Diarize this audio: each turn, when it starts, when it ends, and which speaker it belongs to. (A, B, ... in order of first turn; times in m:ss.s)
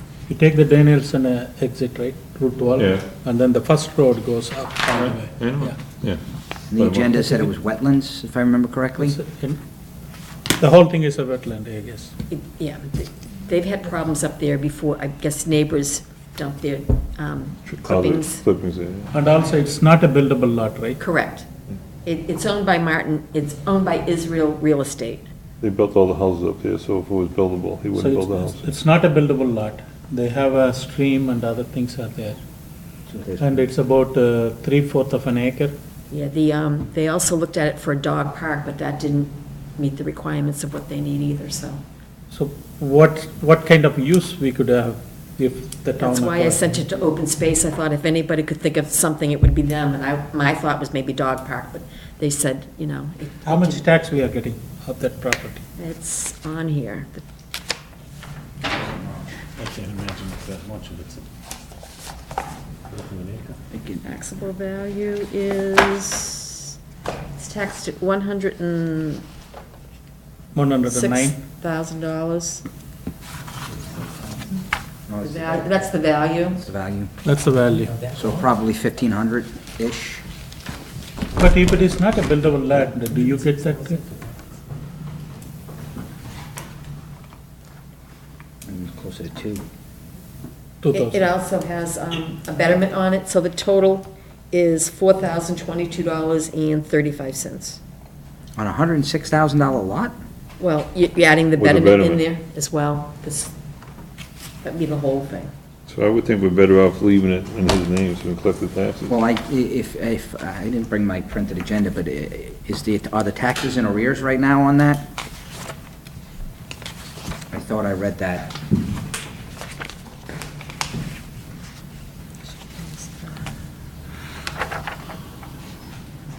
0:00.3-0:05.8 A
0:02.8-0:03.0 B
0:05.1-0:06.2 B
0:06.7-0:09.2 C
0:06.7-0:07.2 B
0:09.0-0:09.6 A
0:10.6-0:12.1 A
0:12.3-0:18.4 D
0:17.7-0:19.1 B
0:19.1-0:21.0 A
0:21.0-0:21.5 D
0:22.0-0:25.3 D
0:25.6-0:28.7 B
0:27.9-0:32.4 A
0:33.1-0:33.6 C
0:33.4-0:35.7 A
0:36.1-0:41.8 D
0:42.3-0:46.7 A
0:46.0-0:53.9 D
0:53.4-0:55.6 A
0:55.8-0:57.2 D
0:59.6-1:01.3 E
1:02.9-1:03.6 E
1:03.7-1:04.0 C
1:04.0-1:06.7 D
1:07.4-1:09.2 D
1:10.5-1:11.4 A
1:10.8-1:12.6 D
1:15.1-1:15.8 C
1:15.2-1:16.6 D
1:16.6-1:17.1 C
1:17.2-1:18.0 A
1:18.1-1:20.2 C
1:21.4-1:24.0 A
1:28.6-1:29.6 C
1:30.8-1:31.2 A
1:30.9-1:37.8 D
1:38.6-1:40.1 C
1:40.6-1:43.5 D
1:41.6-1:42.2 B
1:44.6-1:45.5 D
1:45.9-1:49.1 B
1:49.1-1:55.1 C
1:57.5-1:58.6 C
2:02.5-2:03.5 D